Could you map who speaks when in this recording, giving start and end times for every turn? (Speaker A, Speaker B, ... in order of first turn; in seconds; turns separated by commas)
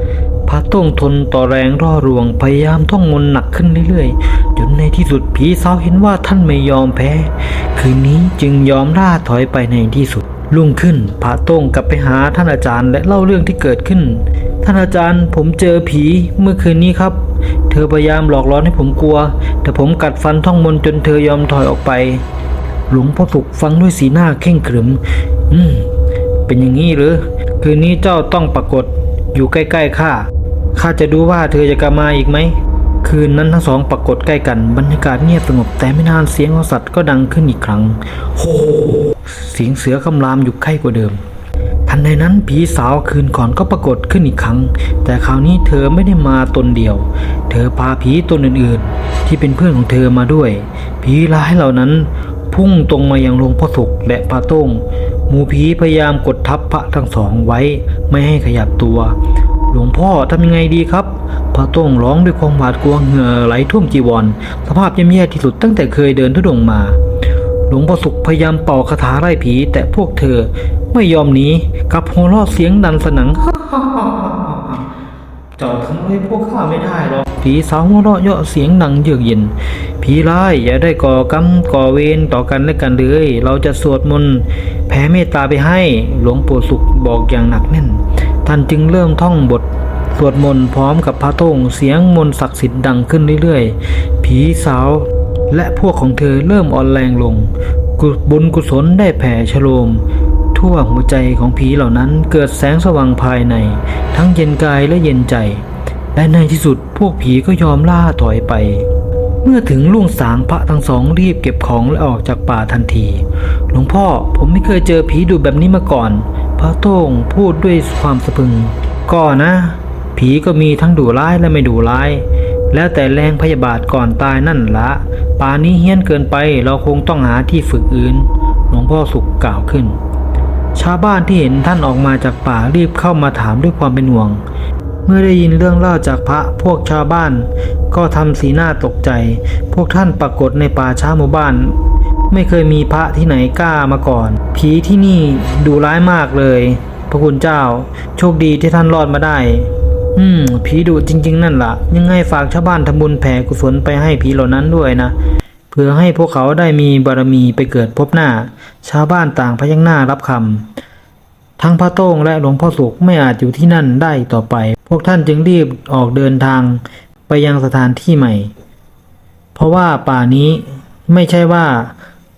Speaker A: 0.5-22.2, Speaker A: 22.9-25.9, Speaker A: 26.5-41.2, Speaker A: 41.9-59.1, Speaker A: 59.7-67.0, Speaker A: 67.7-74.8, Speaker A: 75.6-100.0, Speaker A: 100.5-108.9, Speaker A: 109.4-130.0, Speaker A: 130.8-134.4, Speaker A: 135.1-141.8, Speaker A: 142.3-155.1, Speaker A: 155.7-160.7, Speaker A: 161.6-168.5, Speaker A: 169.5-171.9